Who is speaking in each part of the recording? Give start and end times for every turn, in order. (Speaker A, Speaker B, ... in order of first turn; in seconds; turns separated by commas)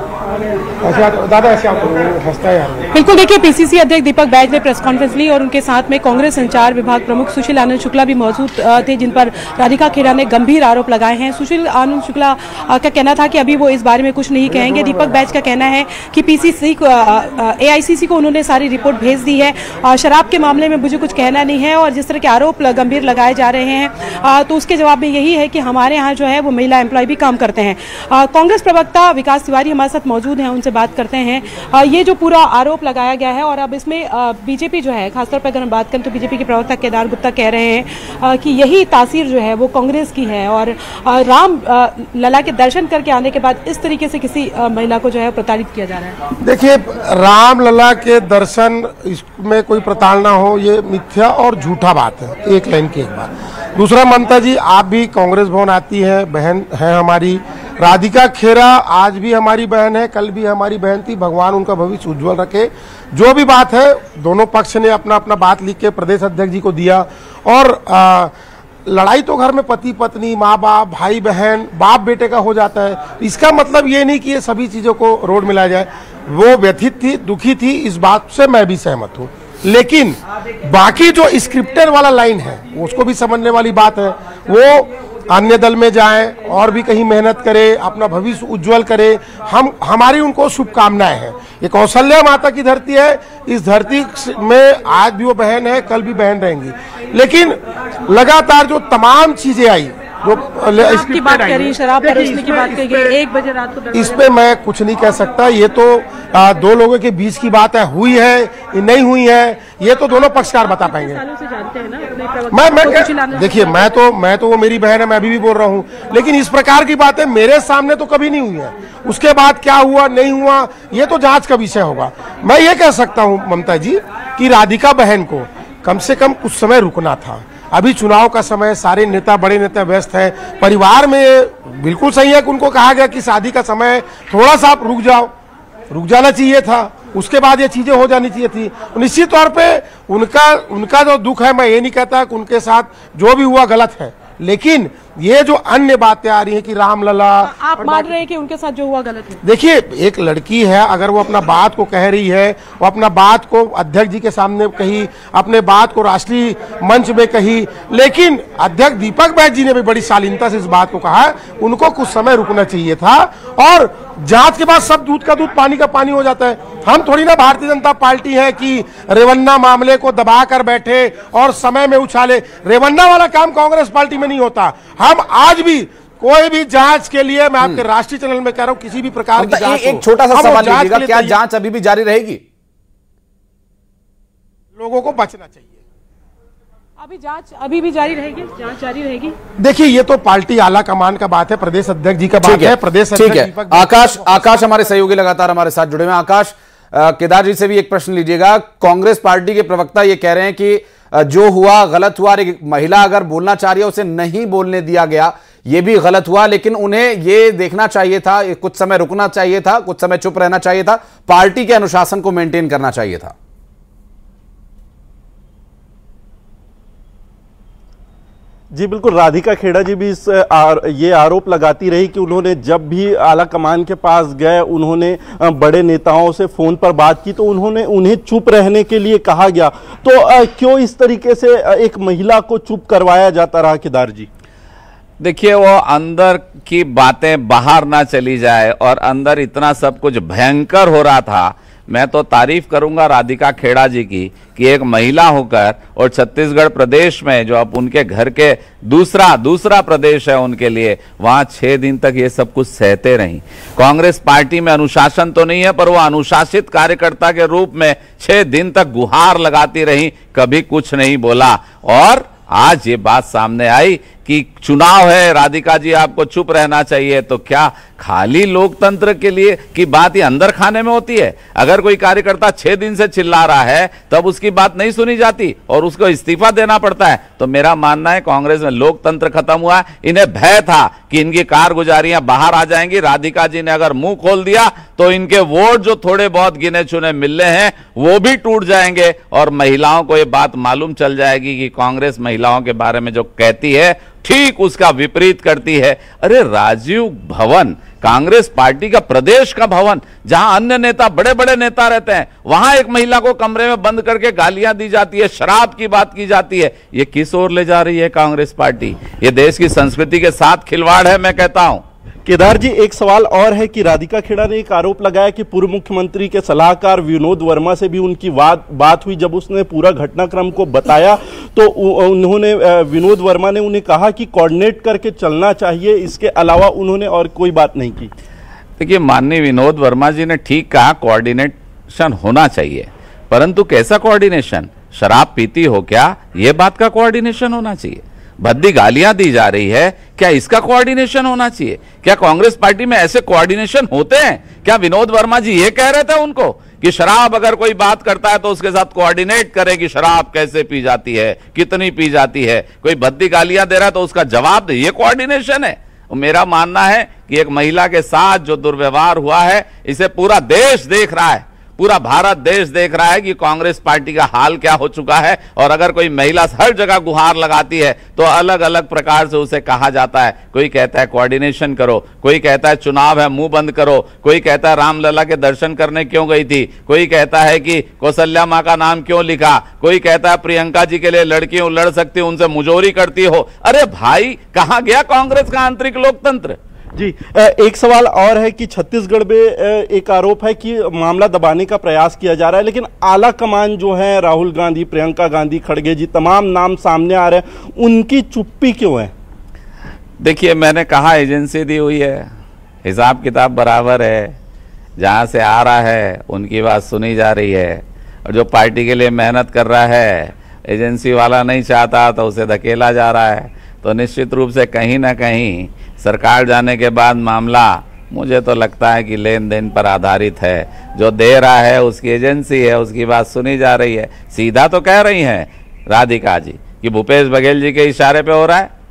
Speaker A: 0.8-2.9, Speaker B: 2.9-46.2, Speaker A: 14.5-15.3, Speaker A: 46.4-68.3, Speaker A: 68.9-102.2, Speaker B: 100.8-104.3, Speaker A: 103.9-111.2, Speaker B: 110.6-114.0, Speaker A: 112.5-135.3, Speaker A: 135.9-148.1, Speaker B: 147.5-149.4, Speaker A: 149.4-181.3, Speaker C: 179.4-182.4, Speaker A: 184.8-185.8, Speaker B: 187.0-189.3, Speaker A: 189.6-194.8, Speaker C: 192.4-213.3, Speaker D: 218.7-234.3, Speaker E: 235.2-311.8, Speaker D: 312.2-328.1, Speaker E: 328.8-386.6, Speaker D: 386.9-399.1, Speaker E: 400.2-402.3, Speaker E: 402.8-404.4, Speaker E: 405.0-428.7